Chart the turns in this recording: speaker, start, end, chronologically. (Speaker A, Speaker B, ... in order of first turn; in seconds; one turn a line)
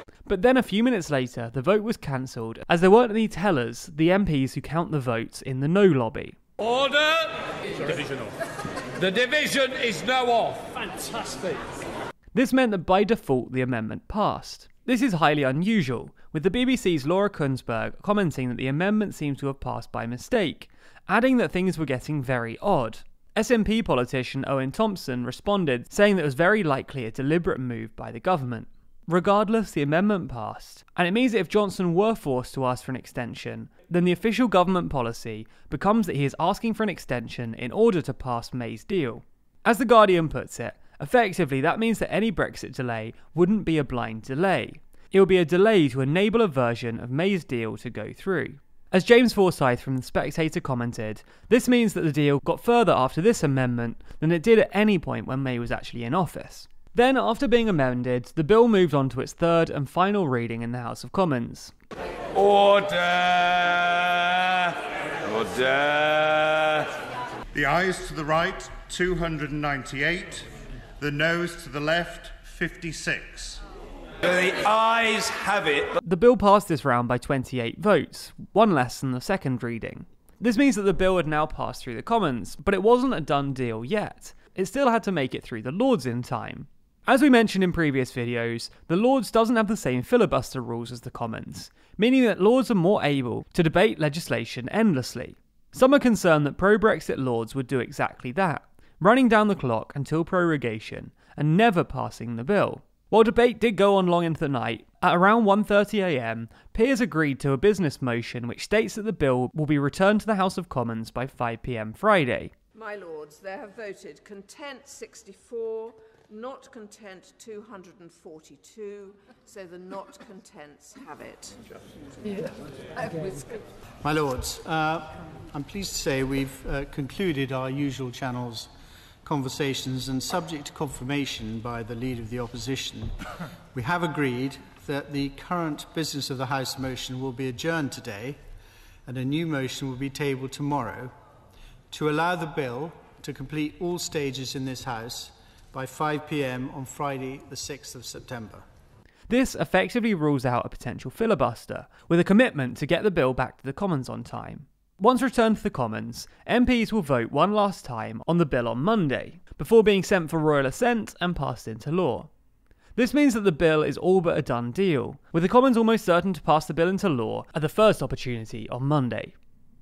Speaker A: 0.3-6.4
Speaker B: 9.6-10.2
Speaker A: 12.3-61.7
Speaker B: 62.4-64.7
Speaker B: 65.4-66.8
Speaker C: 67.6-70.4
Speaker C: 71.2-73.6
Speaker B: 74.5-75.7
Speaker A: 76.0-112.5
Speaker D: 112.7-121.6
Speaker D: 123.0-123.5
Speaker E: 124.0-128.7
Speaker E: 129.2-133.2
Speaker E: 133.7-138.4
Speaker E: 139.1-141.1
Speaker E: 141.9-148.6
Speaker A: 149.3-162.3
Speaker A: 163.0-169.3